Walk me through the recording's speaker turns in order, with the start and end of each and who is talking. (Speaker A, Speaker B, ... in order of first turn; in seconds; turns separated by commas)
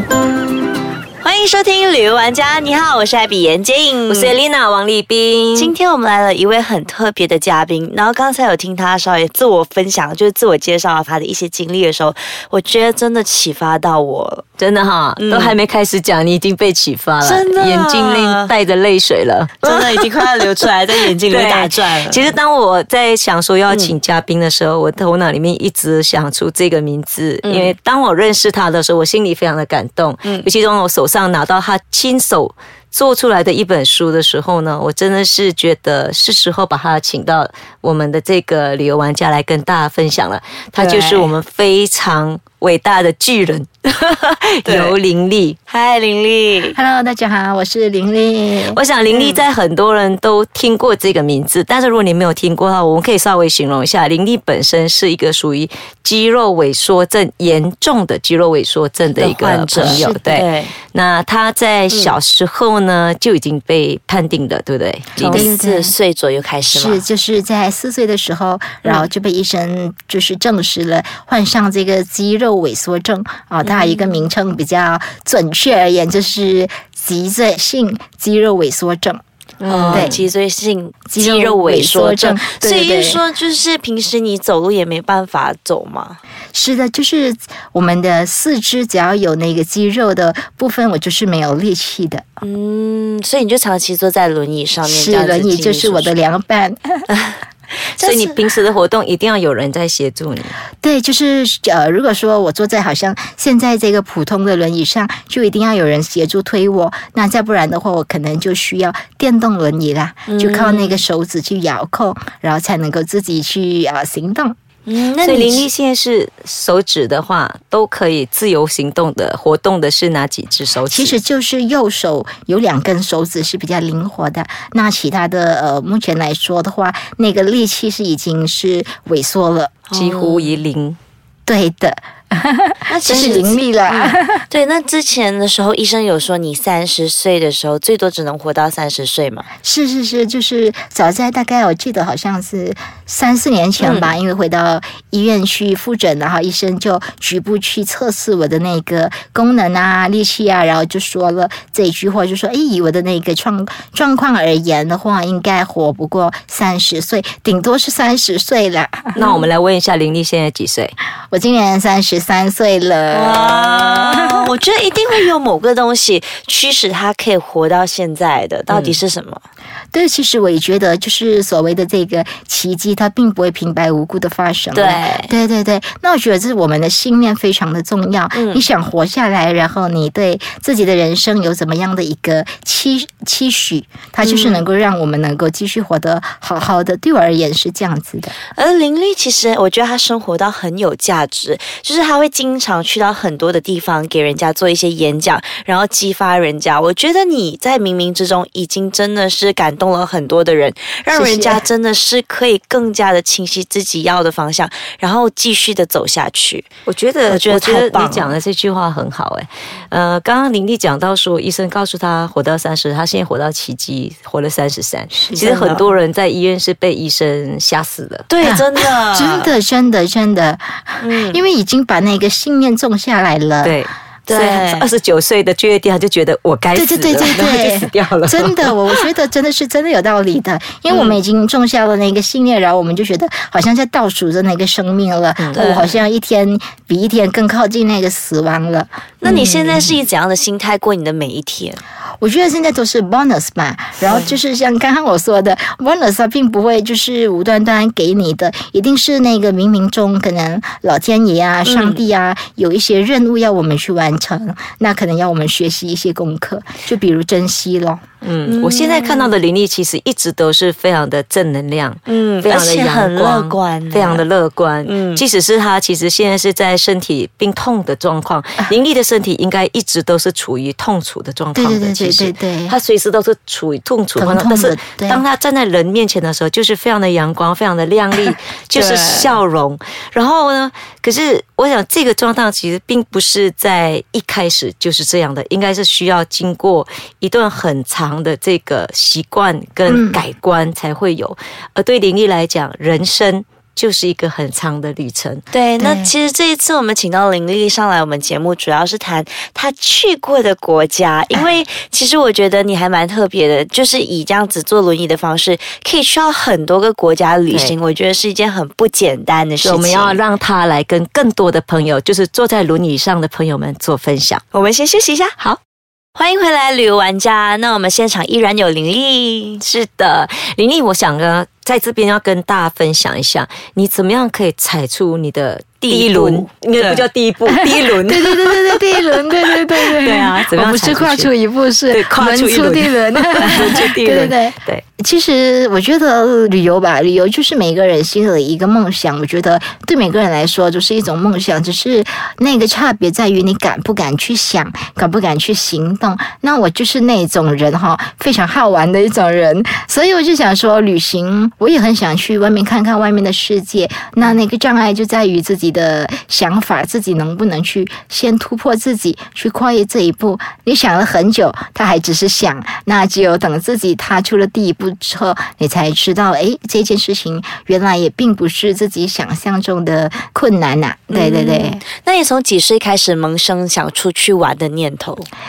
Speaker A: 1.2-4.3, Speaker B: 4.1-5.7, Speaker A: 5.5-14.4, Speaker B: 14.6-20.1, Speaker A: 15.2-15.6, Speaker A: 17.2-18.5, Speaker A: 19.6-22.3, Speaker B: 21.2-45.6, Speaker A: 27.4-27.7, Speaker A: 40.8-41.3, Speaker A: 44.6-45.0, Speaker A: 45.7-46.8, Speaker C: 46.7-48.8, Speaker B: 48.7-65.5, Speaker A: 49.1-49.4, Speaker A: 59.2-60.8, Speaker C: 59.8-60.4, Speaker A: 65.2-67.1, Speaker C: 65.3-65.9, Speaker C: 66.7-79.2, Speaker A: 73.6-74.3, Speaker B: 79.6-80.2, Speaker A: 79.6-86.2, Speaker C: 79.9-80.2, Speaker C: 81.1-83.2, Speaker C: 86.5-92.2, Speaker A: 92.4-96.1, Speaker C: 94.8-97.0, Speaker A: 97.1-97.4, Speaker A: 98.0-98.4, Speaker B: 98.0-100.6, Speaker C: 100.8-114.6, Speaker A: 110.3-111.0, Speaker A: 114.9-115.7, Speaker B: 115.2-121.2, Speaker C: 120.9-129.8, Speaker A: 129.9-130.6, Speaker B: 129.9-131.0, Speaker C: 131.5-134.4, Speaker A: 132.9-139.5, Speaker C: 139.6-159.2, Speaker A: 143.8-144.1, Speaker B: 159.2-160.9, Speaker C: 161.3-164.3, Speaker A: 163.1-169.4, Speaker B: 168.7-169.0, Speaker C: 169.9-188.3, Speaker A: 174.7-175.3, Speaker A: 178.3-178.7, Speaker A: 184.2-184.7, Speaker A: 188.6-206.7, Speaker C: 201.1-201.6, Speaker B: 206.9-218.2, Speaker A: 207.3-208.4, Speaker A: 215.4-215.9, Speaker A: 218.3-219.5, Speaker C: 218.4-223.8, Speaker A: 221.0-221.4, Speaker B: 223.6-229.0, Speaker A: 224.3-224.9, Speaker C: 226.8-239.9, Speaker A: 230.9-231.2, Speaker A: 235.5-236.0, Speaker A: 239.2-241.8, Speaker C: 242.2-258.0, Speaker A: 244.1-244.3, Speaker A: 251.7-252.0, Speaker B: 258.2-295.4, Speaker A: 258.4-259.3, Speaker A: 262.1-264.2, Speaker A: 264.9-265.2, Speaker C: 271.6-272.8, Speaker C: 274.2-275.2, Speaker A: 278.7-279.3, Speaker C: 289.9-290.2, Speaker A: 295.5-310.2, Speaker C: 295.8-296.1, Speaker B: 307.5-307.8, Speaker B: 309.6-314.4, Speaker A: 314.5-315.4, Speaker A: 316.1-319.6, Speaker B: 319.6-331.3, Speaker A: 325.9-327.0, Speaker C: 327.5-371.8, Speaker B: 331.9-334.8, Speaker A: 371.1-375.3